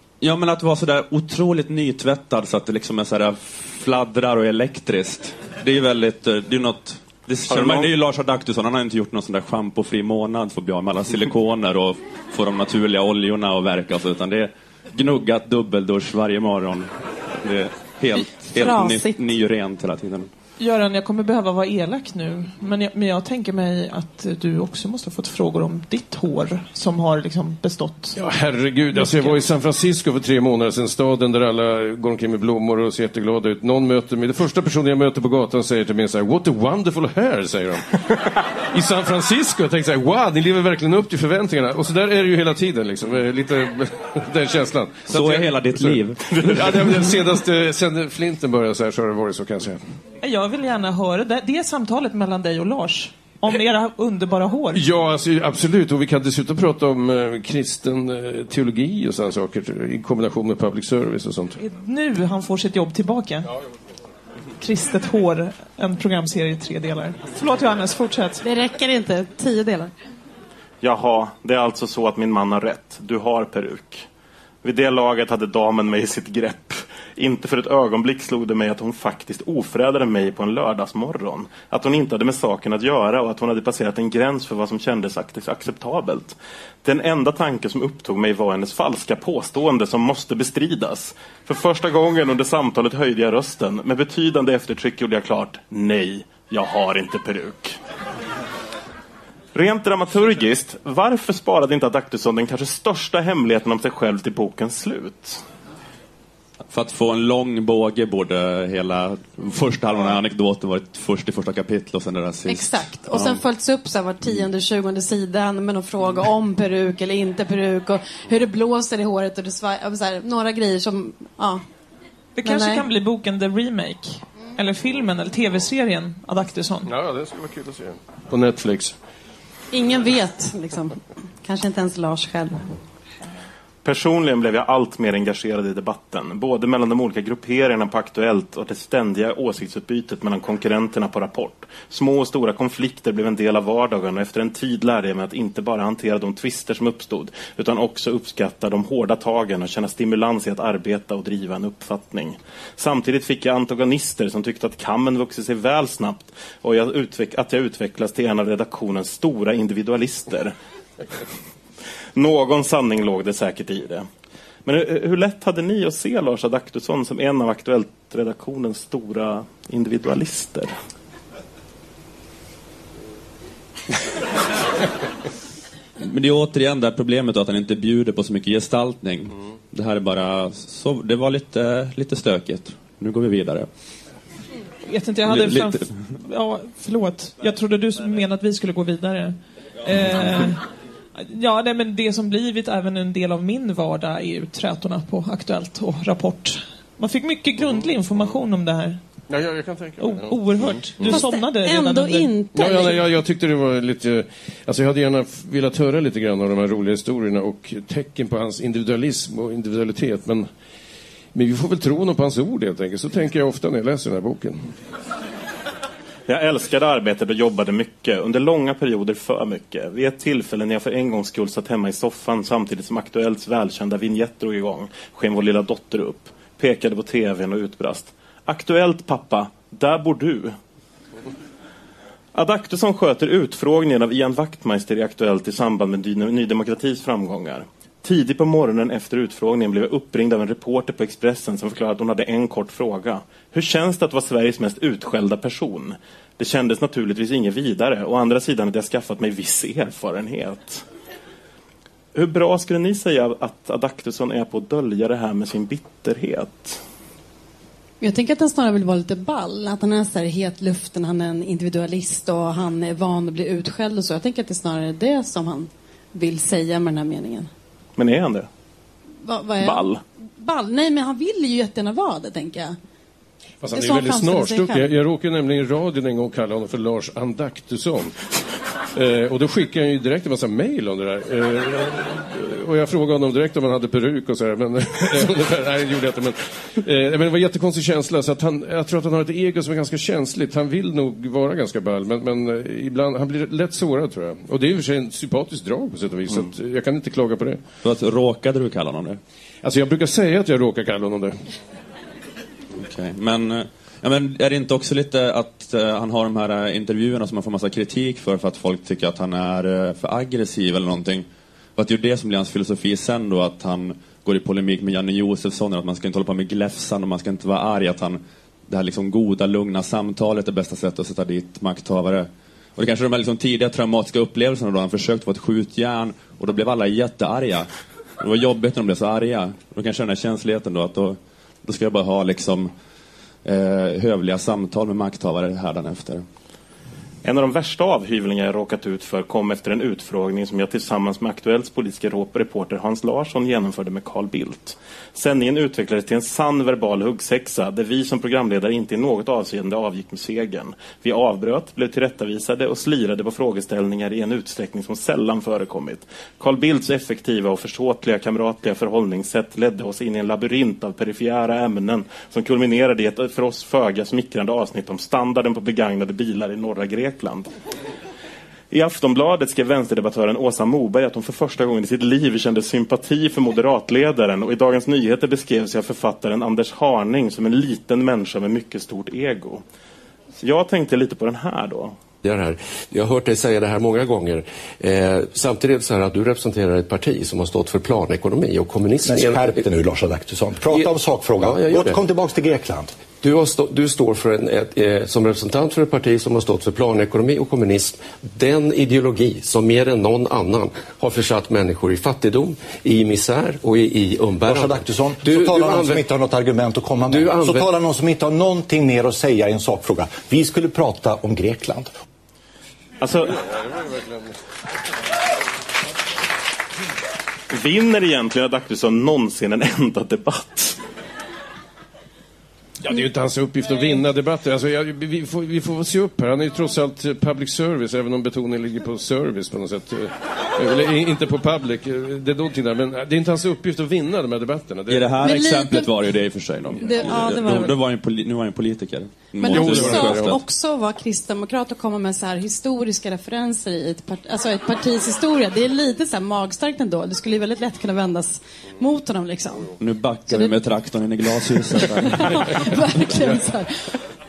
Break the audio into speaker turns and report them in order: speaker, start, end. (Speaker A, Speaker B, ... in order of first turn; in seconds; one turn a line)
Speaker A: 0.2-20.3
Speaker B: 7.5-7.9
Speaker C: 18.2-19.2
Speaker D: 20.6-28.2
Speaker E: 28.1-38.0
Speaker D: 28.9-29.4
Speaker E: 38.7-49.8
Speaker A: 45.1-46.8
Speaker D: 50.2-54.8
Speaker E: 54.7-61.6
Speaker D: 61.6-63.5
Speaker D: 64.6-68.4
Speaker C: 68.4-69.9
Speaker B: 70.8-74.1
Speaker B: 74.6-97.8
Speaker B: 99.5-105.4
Speaker A: 106.7-113.4
Speaker C: 112.5-121.6
Speaker D: 122.4-126.9
Speaker C: 122.4-122.8
Speaker E: 126.9-128.9
Speaker C: 129.7-132.7
Speaker B: 133.8-160.5
Speaker B: 162.2-164.1
Speaker B: 164.7-170.7
Speaker A: 176.0-183.7
Speaker D: 184.8-190.6
Speaker A: 185.3-185.9
Speaker D: 191.2-199.0
Speaker E: 199.3-200.5
Speaker D: 200.0-202.3
Speaker E: 201.0-201.2
Speaker C: 201.1-203.0
Speaker E: 202.6-210.5
Speaker E: 211.3-214.6
Speaker B: 216.3-230.6
Speaker B: 232.3-250.8
Speaker B: 252.2-256.8
Speaker C: 258.0-267.5
Speaker B: 268.0-268.5
Speaker C: 269.2-269.9
Speaker B: 269.6-270.0
Speaker C: 270.4-272.8
Speaker E: 273.6-278.1
Speaker C: 273.7-274.9
Speaker E: 278.9-297.6
Speaker A: 297.8-299.2
Speaker E: 299.6-301.4
Speaker A: 302.7-311.3
Speaker A: 311.8-327.7
Speaker A: 328.2-332.7
Speaker A: 333.4-336.2
Speaker B: 337.2-367.5
Speaker B: 368.7-379.6
Speaker B: 380.4-382.0
Speaker F: 382.2-389.7
Speaker G: 389.0-392.9
Speaker F: 390.6-392.0
Speaker F: 393.1-406.0
Speaker G: 404.4-411.9
Speaker F: 407.1-407.7
Speaker B: 413.0-413.4
Speaker E: 413.5-414.3
Speaker B: 417.5-420.8
Speaker E: 422.8-435.4
Speaker A: 434.9-440.4
Speaker C: 435.2-436.0
Speaker C: 436.8-437.8
Speaker C: 439.4-449.8
Speaker E: 439.5-440.4
Speaker A: 449.8-452.6
Speaker C: 451.7-454.0